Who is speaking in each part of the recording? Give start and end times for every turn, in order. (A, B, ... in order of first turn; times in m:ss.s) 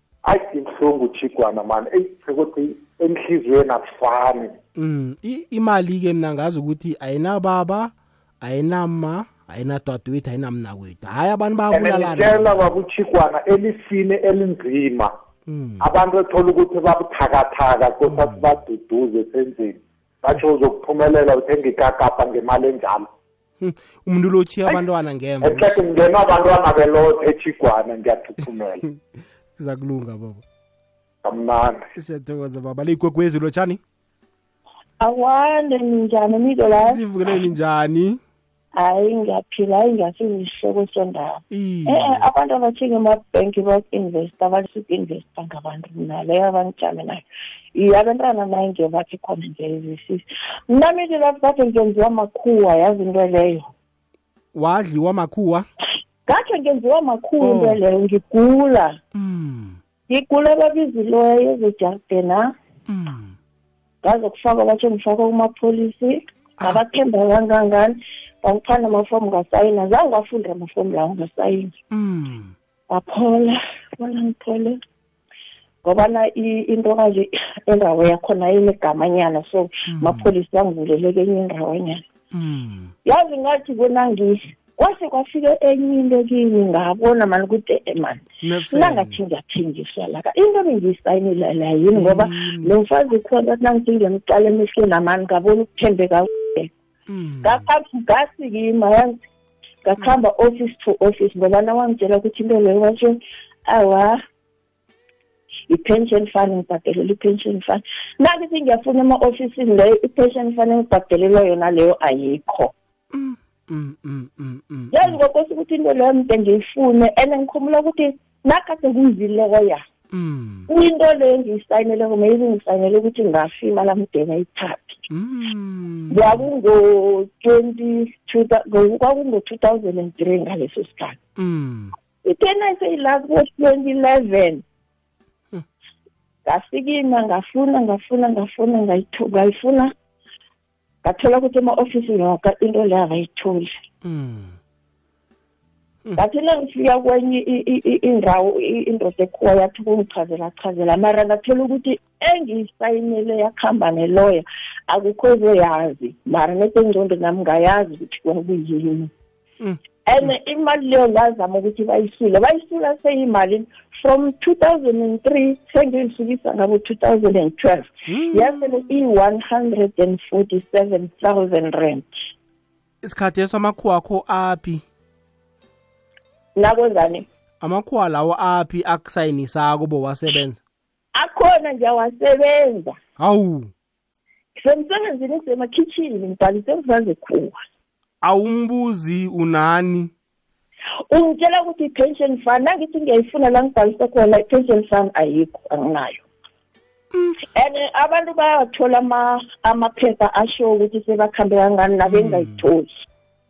0:00.2-0:04.6 A
0:04.8-0:12.7 B
0:11.7-0:15.1 A
0:15.5-0:15.9 B
0:15.8-0:23.1 A
0:18.1-0:18.6 B
0:23.6-0:25.8 B
0:25.4-0:28.8 A
0:28.4-0:29.0 B
0:29.6-0:30.4 B
0:31.2-0:31.8 A
0:31.9-0:33.8 B
0:35.0-0:37.0 C
0:36.8-0:38.2 B
0:38.7-0:47.2 C
0:41.5-0:42.2 B
0:47.7-0:53.6 C
0:54.5-0:55.7 B
0:56.3-0:59.0 C
0:57.4-0:57.8 B
0:59.1-0:59.8 B
1:00.1-1:02.5 C
1:02.9-1:03.4 B
1:04.0-1:11.7 C
1:11.9-1:12.5 B
1:12.9-1:14.8 C
1:15.8-1:22.0 C
1:19.9-1:20.3 B
1:22.3-1:22.9 B
1:23.0-1:36.7 C
1:28.4-1:29.2 B
1:31.9-1:32.7 B
1:37.1-1:37.7 B
1:37.4-1:39.2 C
1:39.8-1:44.2 C
1:45.7-1:52.7 C
1:53.1-1:55.2 B
1:54.9-1:59.8 C
2:00.1-2:00.7 B
2:00.7-2:05.0 C
2:05.1-2:06.4 B
2:06.1-2:11.2 C
2:11.4-2:11.9 B
2:12.2-2:14.6 C
2:16.4-2:19.9 C
2:21.0-2:23.7 C
2:24.0-2:24.6 B
2:26.2-2:39.1 C
2:40.1-2:52.1 C
2:48.1-2:48.6 B
2:53.0-2:54.8 B
2:56.6-2:57.2 C
2:57.6-3:00.6 B
3:01.2-3:03.0 C
3:03.2-3:03.7 B
3:04.6-3:07.6 C
3:08.2-3:10.1 B
3:11.1-3:16.2 C
3:17.6-3:23.0 C
3:22.1-3:22.6 B